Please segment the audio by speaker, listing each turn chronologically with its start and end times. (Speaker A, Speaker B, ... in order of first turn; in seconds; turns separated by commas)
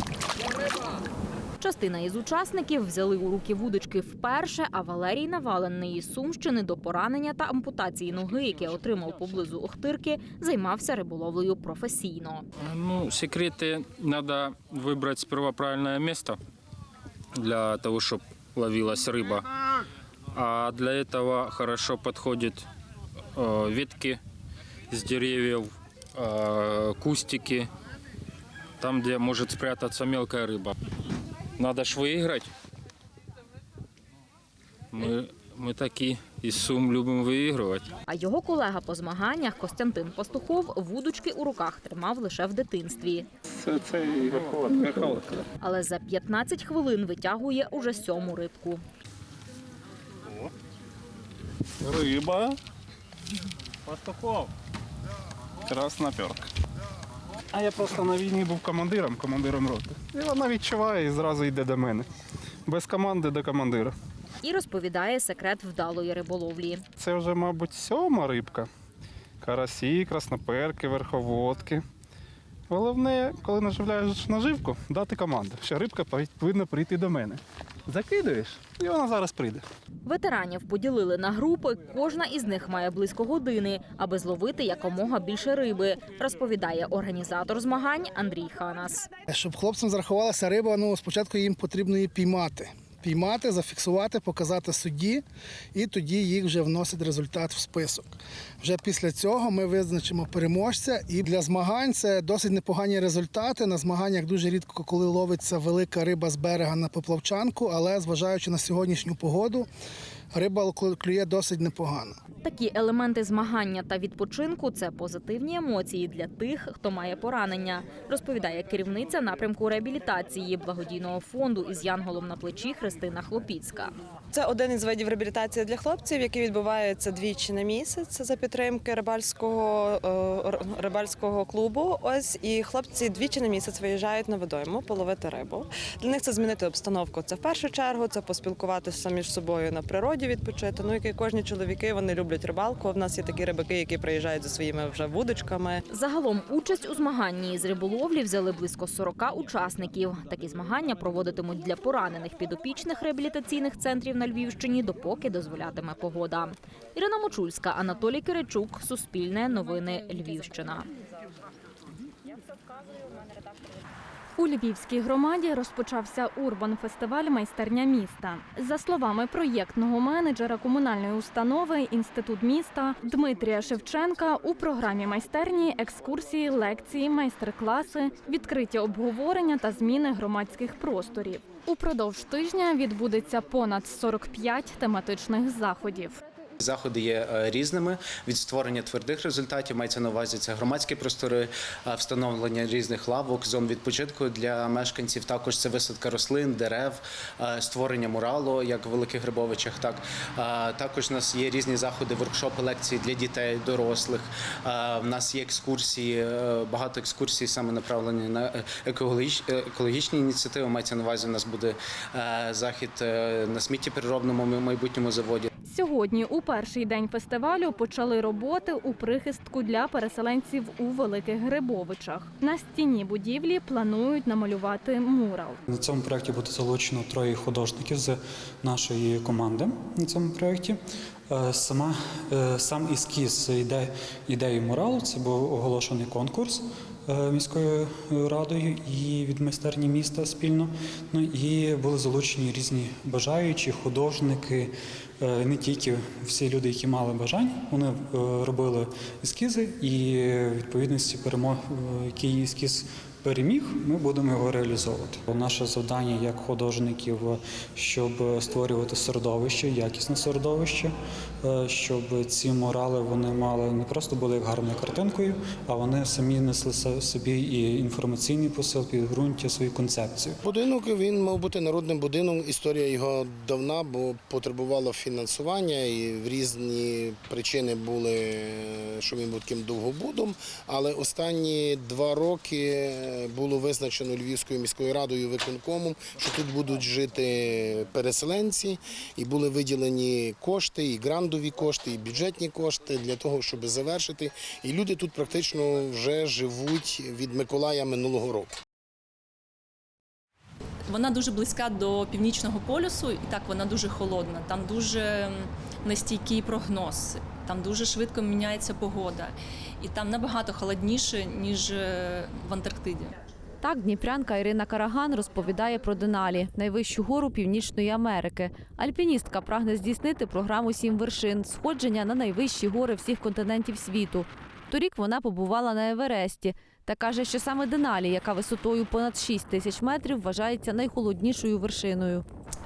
Speaker A: 1.6-12.4, Speaker B: 12.6-16.4, Speaker B: 17.4-19.4, Speaker B: 20.3-22.7, Speaker B: 23.4-24.2, Speaker B: 24.9-27.7, Speaker B: 28.8-30.7, Speaker B: 31.6-32.5, Speaker B: 34.9-37.9, Speaker A: 38.1-43.3, Speaker A: 45.6-48.8, Speaker C: 51.8-52.6, Speaker C: 55.7-56.5, Speaker C: 57.5-62.1, Speaker C: 62.7-63.9, Speaker A: 64.4-66.8, Speaker C: 67.0-68.7, Speaker C: 69.4-71.8, Speaker C: 72.7-79.6, Speaker A: 80.0-89.1, Speaker D: 89.3-95.2, Speaker D: 95.8-98.1, Speaker D: 98.6-109.7, Speaker D: 110.3-112.1, Speaker A: 112.4-123.9, Speaker E: 124.3-145.8, Speaker A: 145.9-160.9, Speaker F: 164.4-186.2, Speaker G: 186.6-215.5, Speaker F: 215.6-225.6, Speaker H: 225.7-230.8, Speaker H: 231.3-260.9, Speaker H: 261.4-270.4, Speaker I: 270.4-298.5, Speaker J: 300.9-313.1, Speaker K: 313.6-332.2